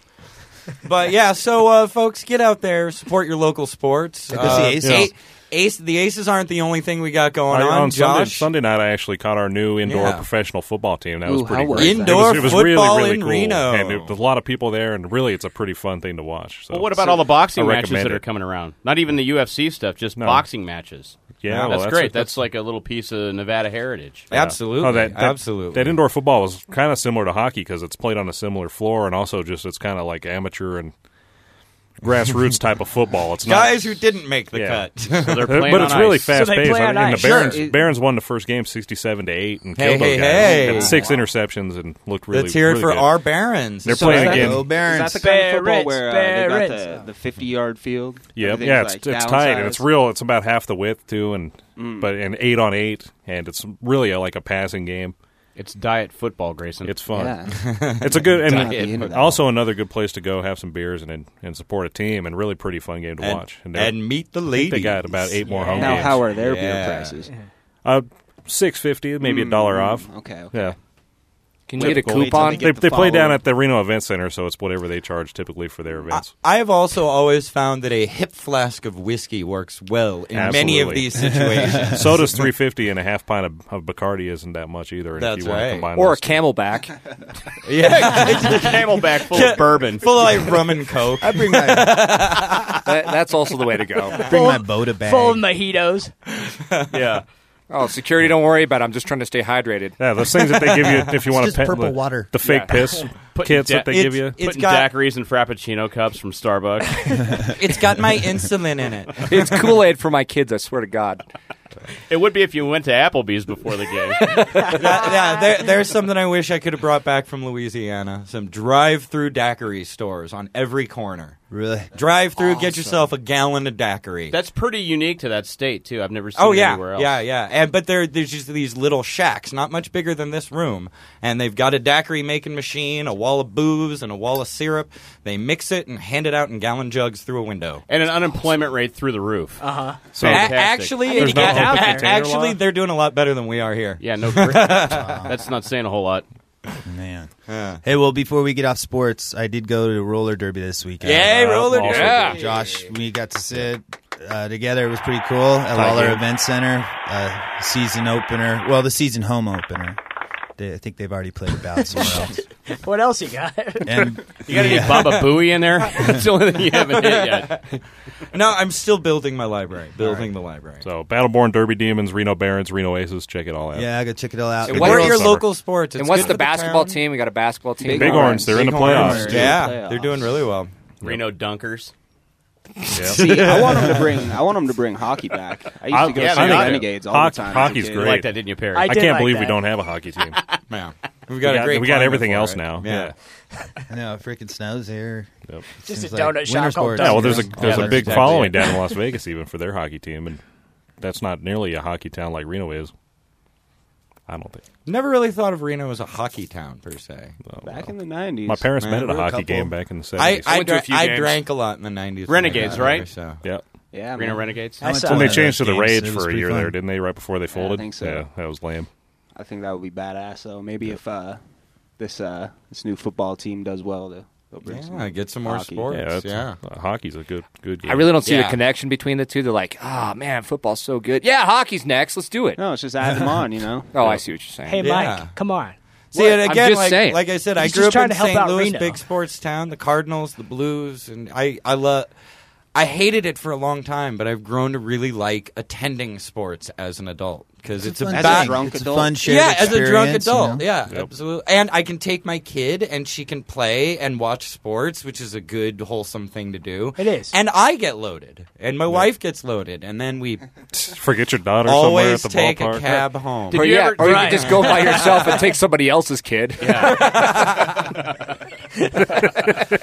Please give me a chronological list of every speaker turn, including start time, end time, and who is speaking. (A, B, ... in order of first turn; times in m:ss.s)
0:00.8-0:08.5 A
0:04.3-0:05.1 B
0:04.8-0:05.1 C
0:07.5-0:18.2 C
0:09.8-0:10.3 A
0:11.2-0:12.7 D
0:11.8-0:14.2 A
0:16.7-0:24.3 E
0:20.2-0:20.5 C
0:21.4-0:22.3 C
0:21.5-0:21.7 A
0:24.3-0:26.0 A
0:24.3-0:30.9 C
0:32.0-0:43.1 C
0:33.4-0:35.8 A
0:35.2-0:36.3 E
0:36.3-0:37.5 F
0:37.2-0:37.6 A
0:37.2-0:37.9 D
0:39.8-0:41.2 A
0:40.4-0:41.3 D
0:40.5-0:41.0 E
0:42.3-0:44.6 A
0:43.8-0:44.7 C
0:43.9-0:49.9 D
0:44.1-0:45.2 B
0:45.2-0:46.8 F
0:48.3-0:55.1 C
0:51.8-0:52.1 D
0:55.6-0:56.9 E
0:56.8-1:06.3 C
0:57.1-0:59.5 D
0:57.5-0:59.2 A
1:03.2-1:07.2 A
1:05.4-1:06.0 F
1:05.7-1:07.3 D
1:07.8-1:10.8 C
1:09.2-1:10.6 D
1:11.7-1:12.7 G
1:11.8-1:13.5 D
1:11.8-1:16.3 C
1:16.1-1:22.5 A
1:20.3-1:26.5 C
1:21.2-1:22.1 B
1:25.2-1:25.9 A
1:26.0-1:27.0 G
1:27.6-1:32.8 A
1:27.8-1:30.3 E
1:31.2-1:32.4 B
1:32.8-1:34.2 G
1:34.1-1:36.1 F
1:34.2-1:35.4 B
1:36.9-1:37.2 E
1:37.7-1:40.3 G
1:40.0-1:44.4 C
1:41.3-1:42.3 B
1:42.4-1:42.8 G
1:43.3-1:47.2 E
1:43.8-1:44.9 A
1:47.6-1:49.3 A
1:49.2-1:51.2 G
1:52.1-1:54.8 E
1:54.6-2:01.4 A
2:01.5-2:01.9 B
2:01.9-2:04.4 A
2:02.4-2:03.1 G
2:04.3-2:07.2 E
2:06.4-2:17.8 A
2:17.9-2:21.6 E
2:19.6-2:20.0 F
2:20.1-2:22.6 C
2:20.2-2:25.3 A
2:21.0-2:22.1 F
2:24.0-2:26.2 E
2:24.9-2:25.3 B
2:26.9-2:27.3 B
2:27.5-2:27.8 A
2:27.8-2:40.0 B
2:31.0-2:32.7 A
2:31.2-2:32.4 C
2:31.5-2:32.5 G
2:40.6-2:42.4 B
2:42.0-2:44.1 F
2:43.8-2:45.2 B
2:44.5-2:47.6 E
2:44.5-2:45.0 A
2:46.7-2:50.9 A
2:50.8-2:54.0 C
2:53.8-2:55.4 B
2:54.7-2:55.3 G
2:54.7-2:55.6 C
2:54.7-2:57.0 A
2:55.9-2:58.5 G
2:57.8-3:00.3 D
2:57.9-3:00.7 A
2:57.9-2:59.6 C
2:58.8-2:59.6 B
3:01.0-3:01.9 E
3:02.9-3:03.6 C
3:03.0-3:04.1 A
3:03.1-3:08.2 D
3:05.9-3:10.4 C
3:06.1-3:06.9 E
3:08.0-3:08.9 E
3:08.7-3:09.6 F
3:10.7-3:13.1 A
3:11.4-3:13.1 C
3:13.9-3:15.3 B
3:15.8-3:17.5 F
3:15.9-3:18.6 B
3:16.9-3:20.4 C
3:17.8-3:18.4 A
3:21.0-3:22.9 C
3:24.3-3:24.6 C
3:24.9-3:27.4 A
3:27.4-3:30.5 C
3:27.6-3:28.8 D
3:28.8-3:29.3 A
3:29.0-3:29.7 B
3:30.2-3:33.4 A
3:30.4-3:31.5 G
3:32.3-3:33.1 E
3:33.9-3:34.6 D
3:34.1-3:34.8 E
3:34.8-3:35.4 F
3:34.8-3:36.8 B
3:35.0-3:38.9 C
3:37.5-3:38.3 D
3:39.4-3:41.4 D
3:42.0-3:45.9 D
3:44.6-3:46.6 A
3:45.9-3:48.2 C
3:47.8-3:52.6 G
3:48.2-3:48.6 A
3:52.6-3:53.9 D
3:53.9-3:54.9 G
3:54.0-3:54.2 A
3:54.6-3:55.8 F
3:54.8-3:55.3 A
3:56.1-4:02.1 A
3:56.2-3:57.3 G
3:57.6-3:59.0 F
4:02.7-4:20.5 A
4:07.8-4:10.7 B
4:08.1-4:09.7 D
4:17.0-4:17.3 F
4:20.7-4:23.1 C
4:21.6-4:23.6 A
4:23.5-4:25.3 E
4:23.5-4:27.8 G
4:24.0-4:25.4 F
4:26.6-4:27.2 E
4:27.0-4:27.6 A